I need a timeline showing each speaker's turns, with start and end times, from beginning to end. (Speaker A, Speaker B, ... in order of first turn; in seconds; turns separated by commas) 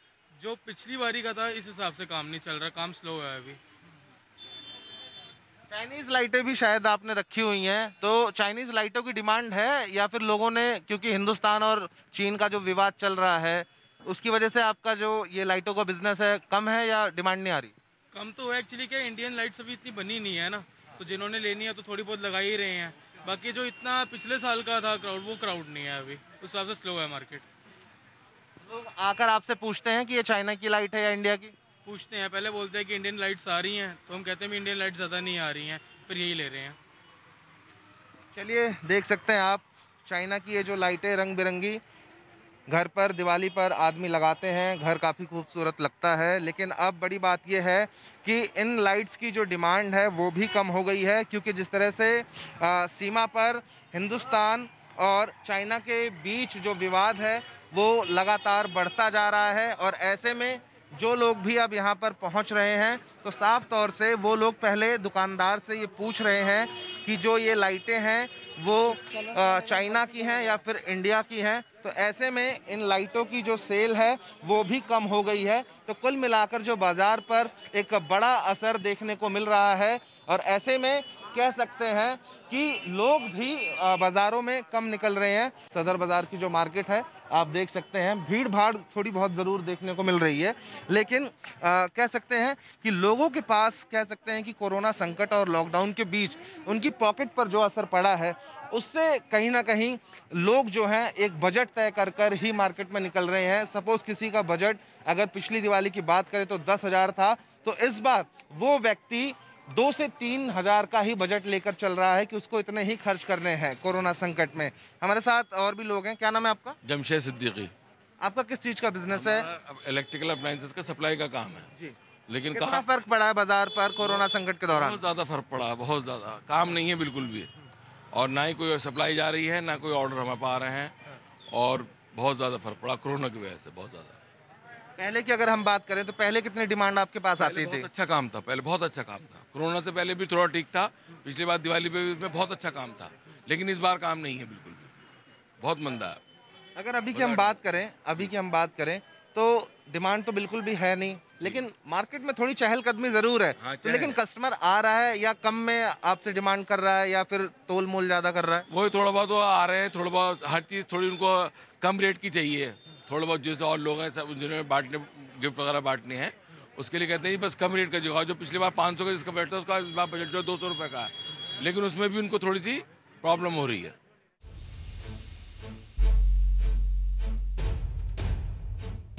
Speaker A: 0.4-3.6, Speaker B: 5.7-17.7, Speaker A: 18.1-27.4, Speaker B: 28.7-31.5, Speaker A: 31.9-36.8, Speaker B: 38.4-41.8, Speaker B: 42.7-116.8, Speaker C: 116.8-117.7, Speaker B: 118.2-119.5, Speaker C: 119.1-121.7, Speaker C: 122.3-122.9, Speaker B: 122.5-125.0, Speaker C: 124.0-127.5, Speaker C: 128.1-130.9, Speaker C: 131.5-134.2, Speaker B: 135.0-137.9, Speaker C: 137.4-144.9, Speaker C: 145.6-146.2, Speaker B: 146.8-158.7, Speaker C: 147.1-147.6, Speaker C: 153.6-154.2, Speaker C: 158.7-173.9